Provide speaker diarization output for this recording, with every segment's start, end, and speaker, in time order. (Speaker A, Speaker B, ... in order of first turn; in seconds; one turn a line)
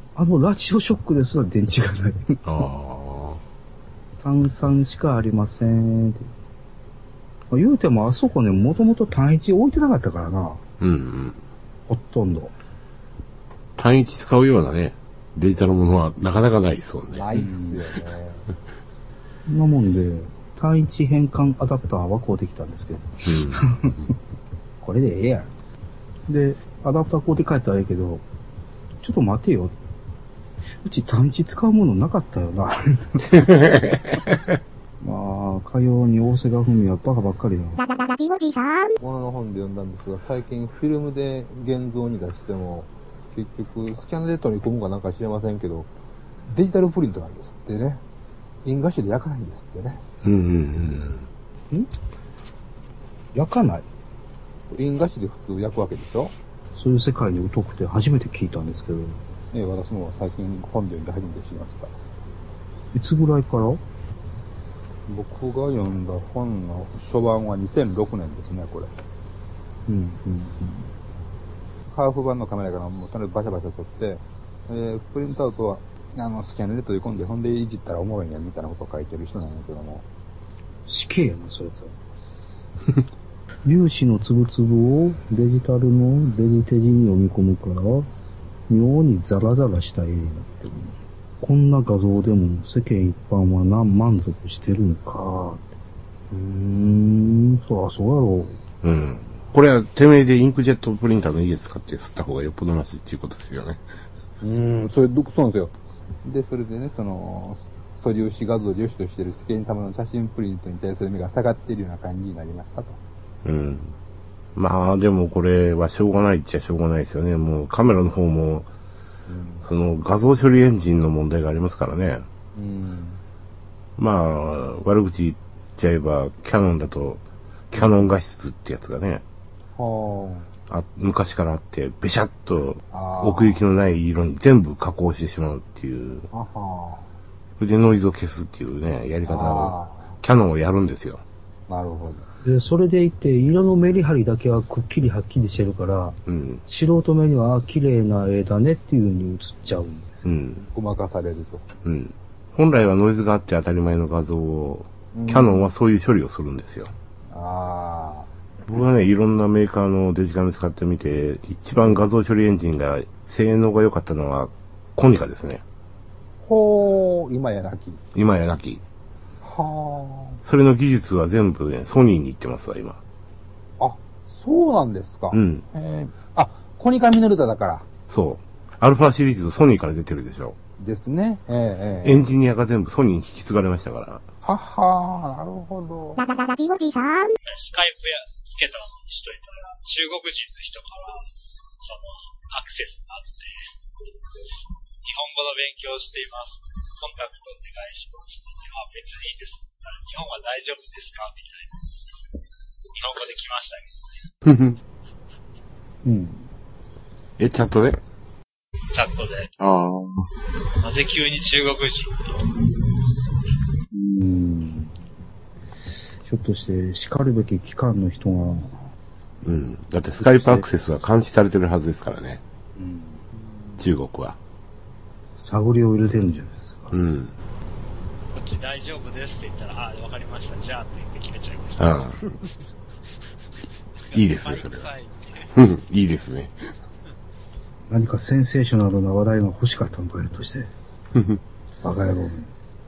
Speaker A: 0.1-2.4
Speaker B: 2.5-3.4
Speaker A: 4.2-6.3
Speaker A: 7.5-10.6
Speaker B: 10.8-11.4
Speaker A: 11.9-12.5
Speaker B: 13.8-17.3
Speaker C: 17.1-18.5
Speaker A: 17.3-17.8
Speaker A: 19.5-24.1
Speaker B: 23.3-24.0
Speaker A: 24.8-25.6
Speaker A: 26.3-28.2
Speaker A: 29.0-29.7
Speaker A: 30.8-33.5
Speaker B: 33.3-34.4
Speaker A: 35.0-37.8
Speaker D: 37.8-39.0
Speaker C: 39.0-45.9
Speaker C: 46.5-48.0
Speaker C: 48.6-50.0
Speaker B: 50.2-51.3
Speaker A: 53.3-53.9
Speaker C: 54.7-56.3
Speaker A: 56.7-59.2
Speaker C: 59.5-61.9
Speaker A: 62.9-63.8
Speaker C: 65.1-68.9
Speaker A: 69.9-70.8
Speaker C: 71.9-80.1
Speaker A: 80.9-81.9
Speaker A: 83.7-88.1
Speaker A: 88.7-95.7
Speaker A: 96.3-98.6
Speaker B: 98.8-103.8
Speaker C: 104.4-113.0
Speaker B: 113.4-114.0
Speaker B: 114.6-118.7
Speaker C: 119.3-119.7
Speaker B: 119.6-122.3
Speaker C: 122.5-123.2
Speaker B: 124.0-129.2
Speaker C: 129.8-130.5
Speaker B: 130.7-136.3
Speaker C: 132.9-133.6
Speaker C: 136.3-137.2
Speaker B: 137.6-141.2
Speaker C: 139.2-140.2
Speaker C: 141.7-142.3
Speaker A: 142.4-150.3
Speaker B: 146.3-146.6
Speaker B: 150.2-150.6
Speaker C: 150.6-151.7
Speaker B: 151.8-156.9
Speaker C: 155.1-155.7
Speaker C: 157.3-158.3
Speaker B: 158.7-165.6
Speaker C: 166.4-168.0
Speaker B: 168.1-168.8
Speaker C: 169.4-170.4
Speaker B: 170.4-173.0
Speaker C: 173.8-177.9
Speaker B: 175.3-175.7
Speaker B: 178.1-180.6
Speaker C: 180.8-182.3
Speaker B: 182.0-184.2
Speaker C: 184.4-186.2
Speaker D: 186.2-187.4
Speaker E: 187.4-193.7
Speaker E: 195.0-202.0
Speaker E: 202.9-204.3
Speaker B: 204.4-204.8
Speaker A: 206.0-206.5
Speaker B: 207.4-208.0
Speaker E: 208.9-209.5
Speaker B: 209.6-210.3
Speaker E: 210.8-212.8
Speaker A: 213.9-215.0
Speaker A: 216.2-218.8
Speaker B: 219.4-222.4
Speaker A: 220.2-220.7
Speaker A: 222.8-223.3
Speaker B: 223.8-224.4
Speaker A: 225.4-227.0
Speaker B: 226.9-227.3
Speaker E: 228.3-232.2
Speaker B: 231.8-232.3
Speaker E: 234.0-235.5
Speaker B: 234.1-234.9
Speaker B: 235.5-236.7
Speaker A: 237.9-240.7
Speaker B: 241.2-241.4
Speaker A: 241.8-242.5